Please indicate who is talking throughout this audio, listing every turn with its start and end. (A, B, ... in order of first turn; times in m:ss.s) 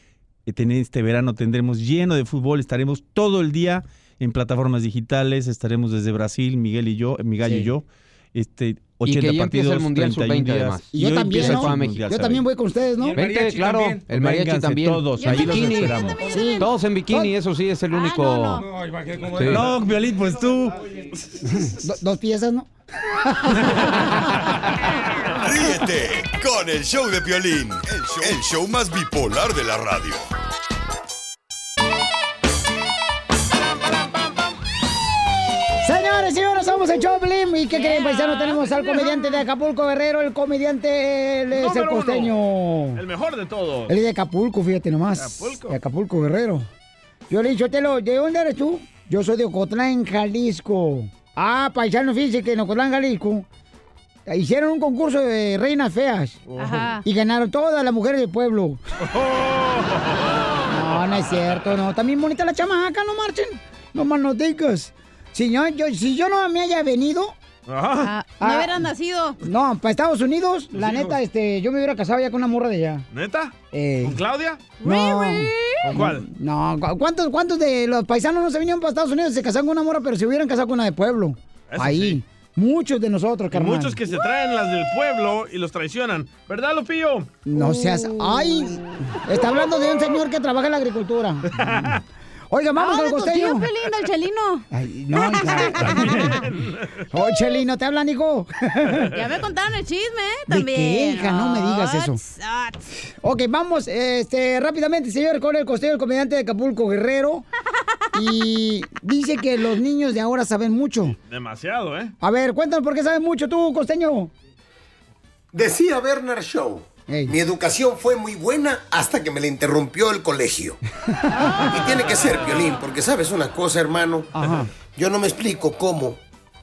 0:00.4-0:12.4 A
0:07.4-0:07.7 B
0:09.0-0:12.3 C
0:10.9-0:13.2 B
0:13.1-0:18.6 C
0:13.2-0:16.2 A
0:15.2-0:15.5 D
0:16.2-0:17.3 B
0:17.9-0:18.6 D
0:19.3-0:19.7 C
0:19.4-0:20.8 A
0:21.6-0:22.7 B
0:23.2-0:23.8 B
0:25.4-0:30.3 E
0:35.8-0:43.0 B
0:37.7-0:38.8 D
0:41.5-0:42.3 F
0:43.0-0:43.9 F
0:43.9-0:46.6 B
0:45.2-0:45.7 F
0:47.3-0:53.4 B
0:54.2-0:56.4 B
0:56.5-0:56.8 F
0:56.6-0:57.0 D
0:57.0-0:58.8 B
0:59.1-1:00.3 F
1:00.7-1:07.4 B
1:07.7-1:08.1 F
1:08.0-1:09.4 D
1:08.4-1:08.8 B
1:09.4-1:13.0 B
1:10.7-1:11.1 F
1:13.1-1:13.5 F
1:13.7-1:14.2 B
1:14.0-1:14.7 F
1:14.8-1:15.8 D
1:14.8-1:24.0 B
1:15.8-1:16.2 F
1:21.7-1:22.2 F
1:23.5-1:27.3 F
1:27.4-1:31.9 B
1:31.5-1:32.0 F
1:32.5-1:33.7 B
1:32.8-1:36.3 D
1:34.7-1:36.4 B
1:36.3-1:37.0 F
1:37.1-1:39.1 B
1:39.1-1:42.8 D
1:40.5-1:42.2 B
1:43.2-1:47.4 B
1:48.1-1:51.2 B
1:51.1-1:52.1 F
1:52.2-1:54.3 B
1:55.5-2:00.8 G
1:57.1-1:57.4 B
2:01.1-2:01.8 B
2:01.7-2:06.2 G
2:04.3-2:04.7 B